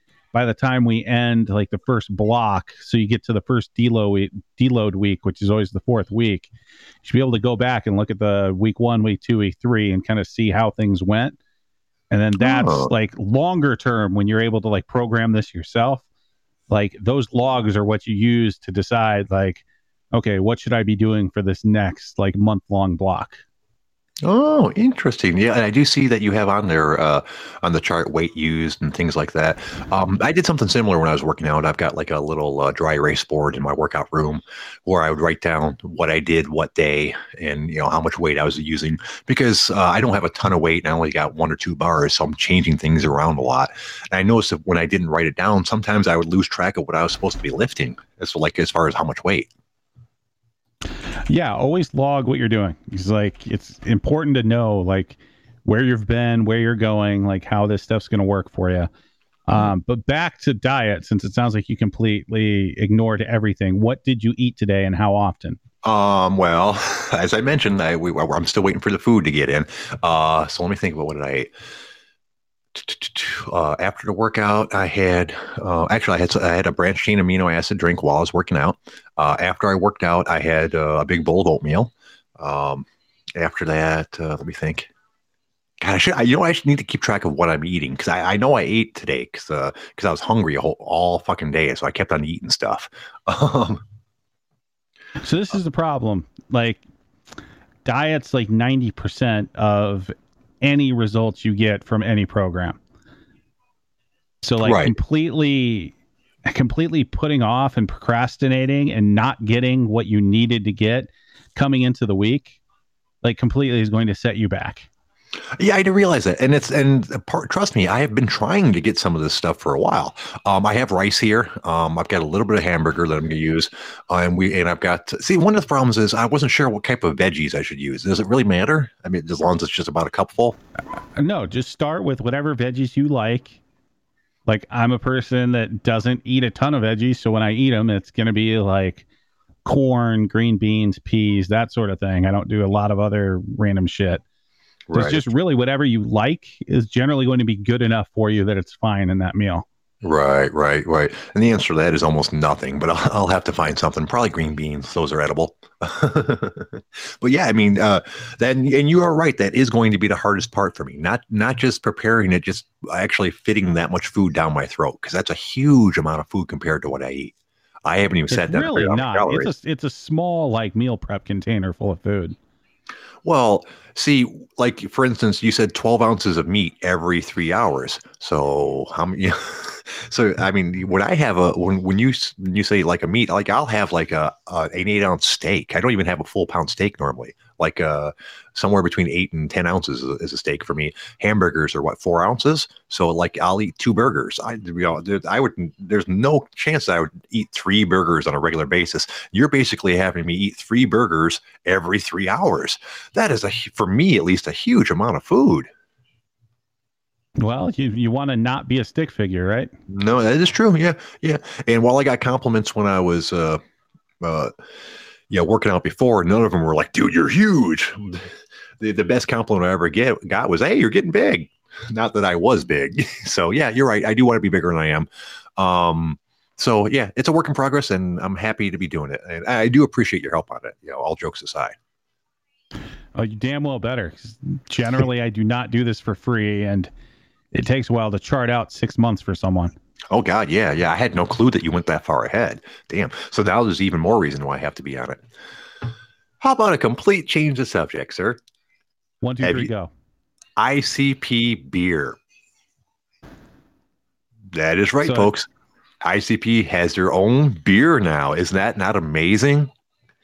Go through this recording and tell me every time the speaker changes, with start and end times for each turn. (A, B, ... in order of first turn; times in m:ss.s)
0:00.3-0:06.5 A
0:07.0-0:11.4 A
0:12.1-0:16.0 A
0:12.4-0:12.9 B
0:16.7-0:23.4 A
0:24.2-0:49.5 B
0:51.3-0:58.9 A
0:59.5-1:05.6 A
1:05.8-1:11.5 B
1:12.7-1:24.9 B
1:25.8-1:33.8 B
1:35.2-1:36.8 A
1:37.8-1:42.8 A
1:44.4-1:45.9 A
1:44.6-1:44.9 B
1:46.5-1:52.6 A
1:53.2-1:54.9 A
1:55.6-2:10.6 B
2:11.2-2:13.6 A
2:14.5-2:19.0 A
2:19.6-2:24.2 A
2:24.9-2:25.2 B
2:24.9-2:29.6 A
2:30.0-2:47.3 B
2:47.8-2:49.5 B
2:48.3-2:52.4 A
2:53.2-3:25.7 B
3:27.4-3:29.7 A
3:29.9-3:33.6 B
3:34.2-3:34.5 B
3:35.3-3:51.8 B
3:53.2-3:56.9 A
3:57.5-3:59.7 A
4:00.1-4:05.2 B
4:06.4-4:08.4 B
4:09.2-4:09.9 A
4:09.4-4:09.7 B
4:10.6-4:12.2 B
4:14.5-4:15.5 B
4:15.0-4:15.3 A
4:16.0-4:19.7 B